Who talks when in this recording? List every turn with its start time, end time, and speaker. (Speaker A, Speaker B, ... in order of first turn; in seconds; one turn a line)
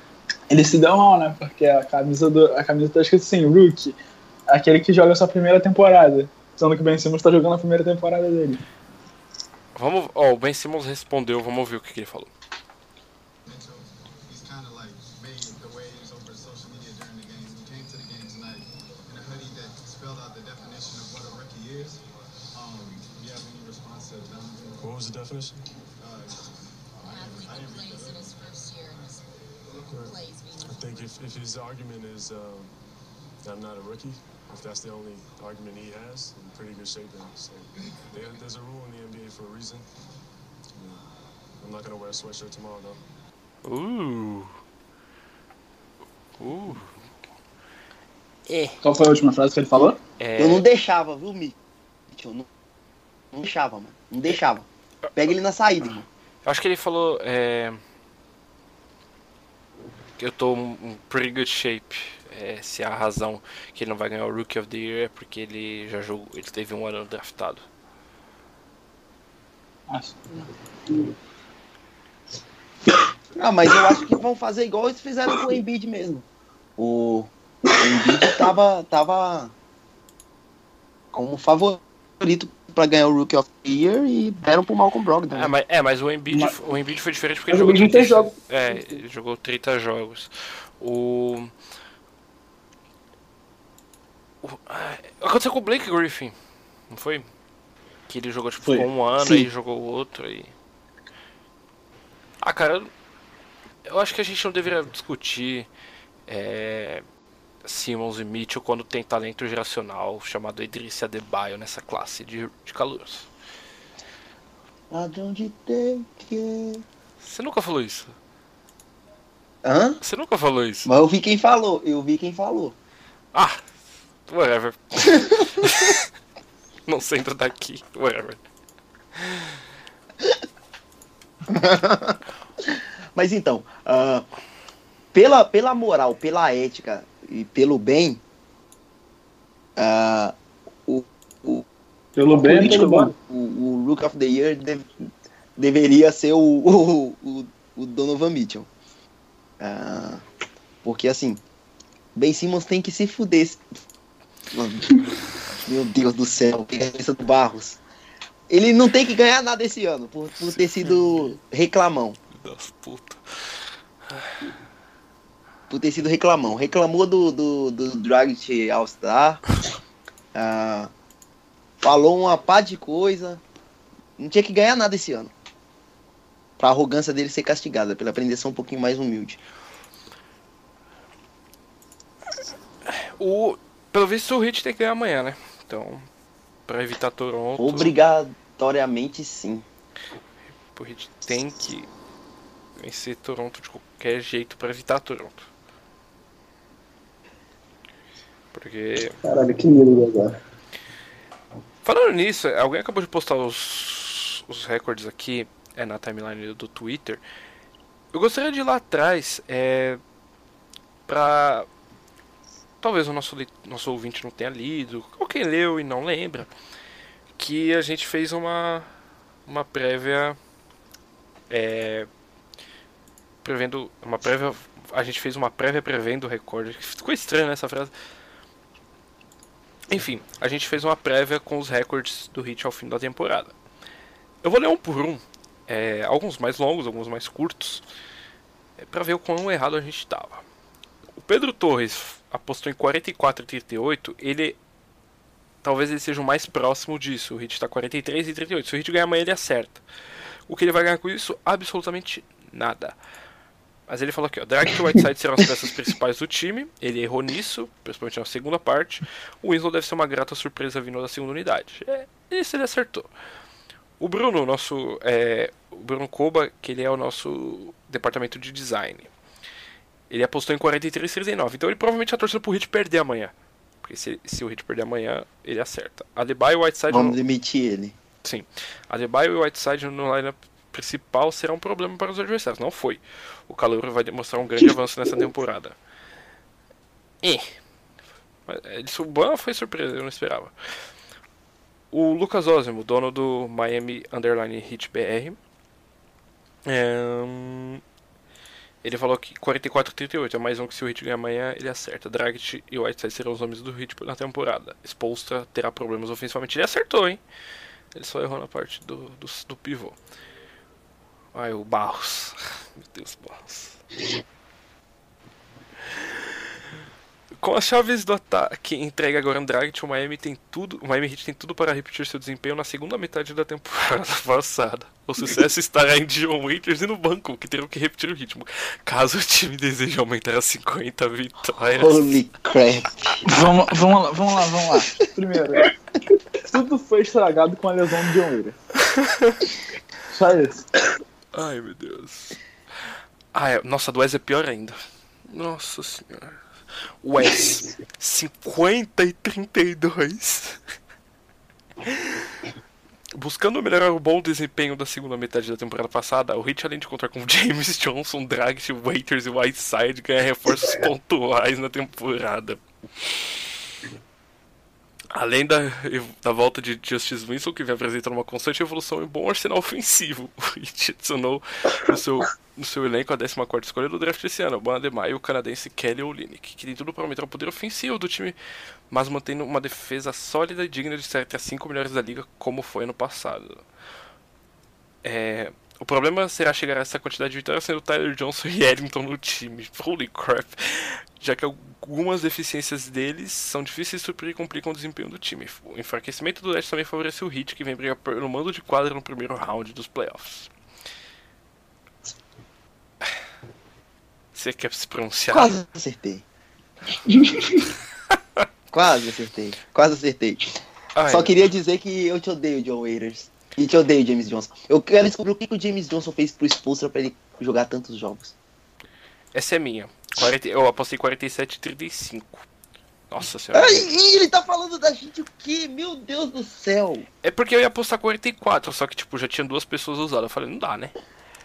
Speaker A: 0.5-4.0
Speaker A: 4.5-8.6
Speaker B: 9.8-12.3
Speaker C: 13.5-22.0
Speaker C: 22.5-24.8
Speaker D: 24.8-25.6
Speaker C: 26.0-30.0
Speaker D: 29.9-32.8
Speaker D: 33.4-39.9
Speaker C: 37.8-38.4
Speaker D: 40.8-41.0
Speaker D: 41.6-43.0
Speaker B: 43.6-44.5
Speaker B: 46.4-46.9
Speaker B: 48.5-48.8
Speaker A: 48.8-50.0
Speaker E: 49.7-51.6
Speaker B: 50.2-50.6
Speaker E: 52.1-52.5
Speaker E: 53.3-56.0
Speaker B: 56.5-57.8
Speaker B: 60.2-67.6
Speaker A: 69.9-70.3
Speaker E: 73.4-76.3
Speaker E: 76.8-79.5
Speaker E: 81.1-85.5
Speaker B: 85.3-91.5
Speaker F: 87.5-89.0
Speaker B: 94.4-96.3
Speaker B: 96.9-97.3
Speaker B: 98.1-100.5
Speaker B: 102.4-102.9
Speaker B: 103.9-105.7
Speaker B: 106.3-107.0
Speaker B: 107.7-113.3
Speaker E: 114.9-116.8
Speaker B: 117.2-118.2
Speaker E: 119.6-120.0
Speaker B: 120.0-120.9
Speaker E: 120.8-122.8
Speaker B: 123.3-123.6
Speaker B: 124.3-126.0
Speaker E: 125.2-125.7
Speaker B: 126.9-128.4
Speaker B: 129.2-129.6
Speaker E: 131.5-134.3
Speaker E: 135.1-138.2
Speaker E: 139.8-140.4
Speaker E: 140.9-141.7
Speaker A: 142.2-143.1
Speaker F: 142.3-143.1
Speaker E: 143.3-144.9
Speaker E: 145.6-148.7
Speaker E: 149.6-150.2
Speaker E: 150.8-151.4
Speaker E: 152.2-153.6
Speaker E: 154.5-157.8
Speaker E: 158.5-162.2
Speaker B: 162.3-163.6
Speaker E: 165.7-169.4
Speaker E: 170.3-170.9
Speaker E: 171.8-173.4
Speaker E: 174.2-175.3
Speaker E: 176.6-179.4
Speaker B: 182.9-186.1
Speaker B: 186.7-187.9
Speaker E: 187.6-189.7
Speaker B: 190.7-191.9
Speaker B: 192.8-195.5
Speaker B: 198.5-199.2
Speaker F: 199.2-200.4
Speaker B: 201.8-207.2
Speaker B: 208.1-210.0
Speaker B: 211.1-211.7
Speaker B: 212.8-216.5
Speaker B: 217.4-218.9
Speaker B: 219.5-220.4
Speaker B: 221.5-222.1
Speaker B: 223.4-227.9
Speaker B: 229.9-233.6
Speaker B: 234.4-237.8
Speaker B: 238.8-240.4
Speaker B: 241.2-244.6
Speaker B: 245.6-249.8
Speaker B: 250.5-253.0
Speaker B: 253.9-263.1
Speaker B: 264.0-269.1
Speaker B: 270.1-277.2
Speaker E: 276.9-278.0
Speaker B: 278.2-285.8
Speaker B: 287.2-287.6
Speaker B: 288.5-290.5
Speaker B: 291.9-295.4
Speaker B: 296.7-297.8
Speaker B: 298.8-307.2
Speaker B: 307.9-310.0
Speaker B: 311.3-313.8
Speaker B: 317.4-332.2
Speaker E: 331.8-333.3
Speaker A: 333.2-335.7
Speaker A: 336.5-338.6
Speaker B: 338.9-339.4
Speaker A: 340.1-340.7
Speaker B: 341.3-342.4
Speaker B: 343.3-344.8
Speaker B: 345.3-346.4
Speaker B: 347.0-350.6
Speaker B: 351.8-352.4
Speaker B: 353.2-363.3
Speaker B: 365.1-378.4
Speaker B: 378.9-383.6
Speaker B: 385.0-400.5
Speaker B: 404.4-405.6
Speaker E: 405.3-406.2
Speaker F: 407.1-407.6
Speaker E: 408.7-410.4
Speaker B: 410.9-411.4
Speaker E: 411.1-418.3
Speaker B: 419.3-422.4
Speaker B: 423.1-423.8
Speaker E: 423.5-427.1
Speaker B: 427.2-430.9